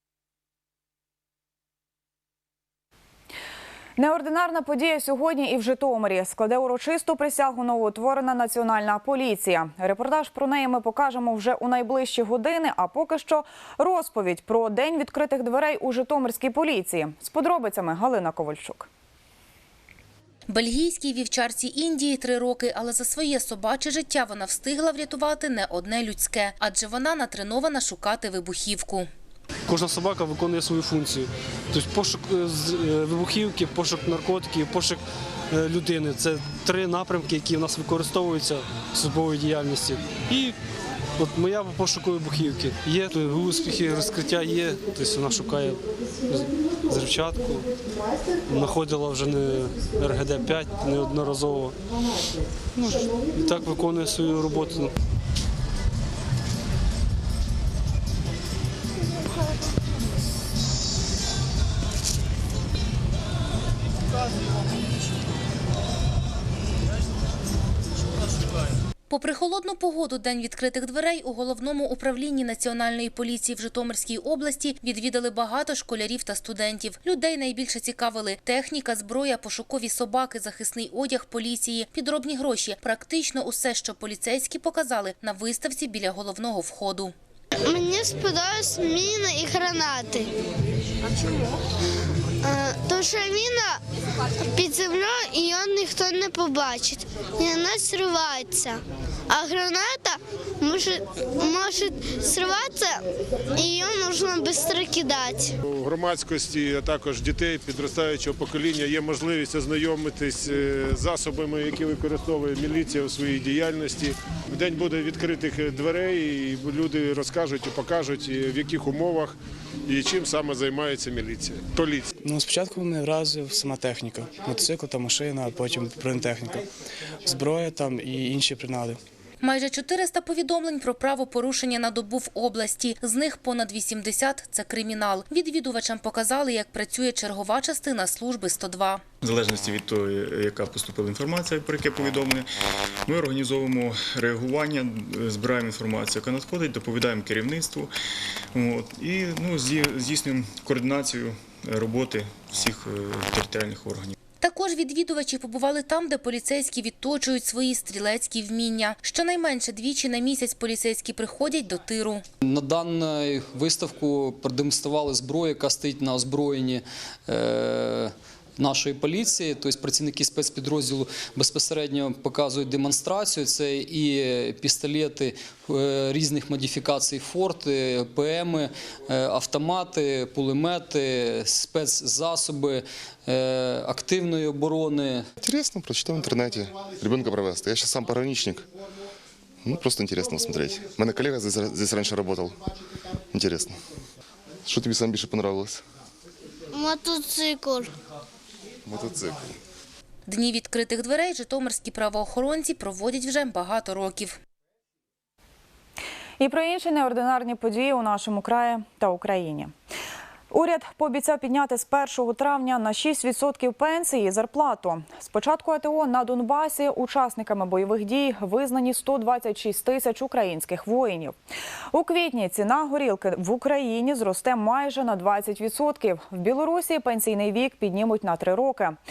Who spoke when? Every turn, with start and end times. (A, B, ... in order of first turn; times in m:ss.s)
0:04.0-0:18.9 A
0:20.5-0:29.1 B
0:29.7-0:35.0 C
0:35.5-0:40.6 C
0:41.2-0:47.7 C
0:48.5-0:51.8 C
0:52.8-0:54.9 C
1:09.1-1:27.1 B
1:27.6-1:30.3 D
1:32.4-1:33.8 D
1:34.4-1:45.6 D
1:45.7-1:59.4 E
1:59.9-2:02.1 E
2:02.2-2:06.6 F
2:07.2-2:09.0 F
2:09.4-2:19.0 B
2:19.2-2:22.5 G
2:23.1-2:27.9 G
2:28.5-2:34.2 G
2:34.4-2:42.2 B
2:42.4-3:05.3 H
3:05.4-3:08.7 I
3:09.6-3:12.6 I
3:13.3-3:13.8 I
3:14.7-3:15.8 I
3:16.7-3:17.9 D
3:18.9-3:19.6 I
3:20.3-3:24.4 B
3:26.4-3:29.7 A
3:30.5-3:41.4 A
3:41.9-3:49.0 A